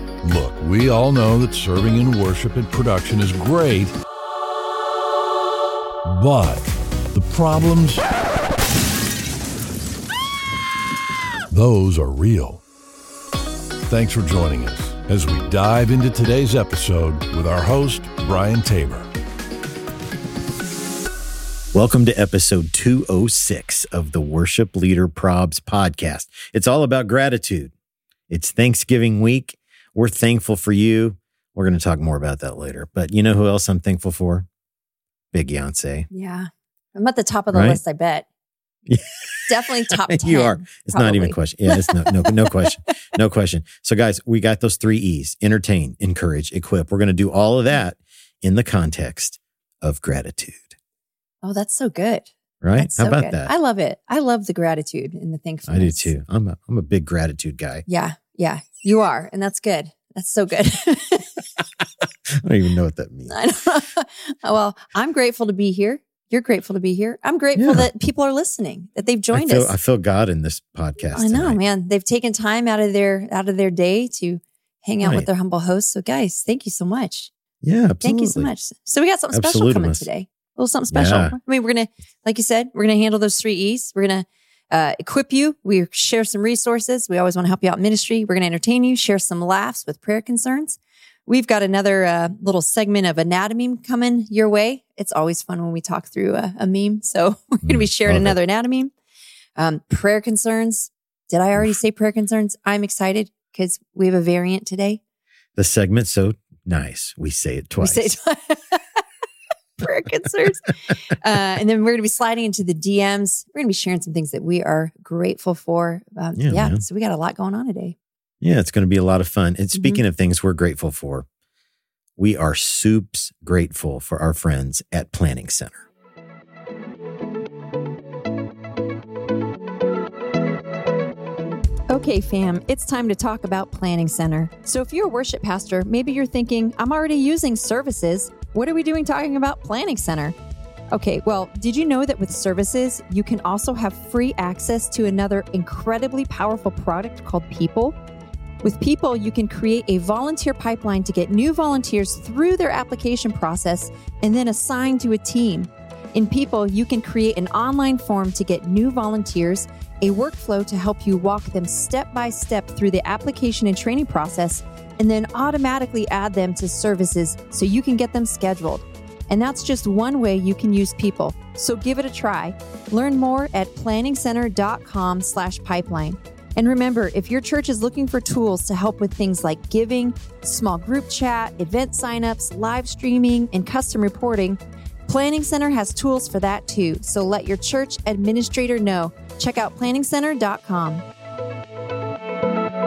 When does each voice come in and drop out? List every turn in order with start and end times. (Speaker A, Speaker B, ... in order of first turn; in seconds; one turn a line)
Speaker A: 0.2-4.0
Speaker A: 6.0-8.0
Speaker A: 11.5-12.6
Speaker A: 13.9-19.1
Speaker B: 21.7-27.7
Speaker B: 28.3-34.5
Speaker B: 35.3-36.1
Speaker C: 36.1-38.3
Speaker B: 37.5-37.8
Speaker B: 38.9-50.8
Speaker C: 39.5-42.6
Speaker C: 51.4-56.1
Speaker B: 52.6-53.5
Speaker B: 55.7-57.9
Speaker C: 57.9-61.5
Speaker B: 62.3-63.4
Speaker C: 63.3-69.7
Speaker B: 67.6-67.9
Speaker B: 69.3-71.6
Speaker C: 71.1-77.3
Speaker B: 75.0-75.3
Speaker B: 77.6-78.5
Speaker C: 78.0-98.9
Speaker B: 79.3-80.1
Speaker B: 80.9-81.4
Speaker B: 97.6-98.4
Speaker C: 99.6-105.0
Speaker B: 105.6-108.1
Speaker C: 107.8-109.0
Speaker C: 109.8-118.0
Speaker B: 116.4-116.8
Speaker B: 118.4-121.3
Speaker C: 119.8-120.0
Speaker B: 122.2-125.9
Speaker C: 131.9-140.4
Speaker C: 140.9-148.0
Speaker C: 148.6-191.1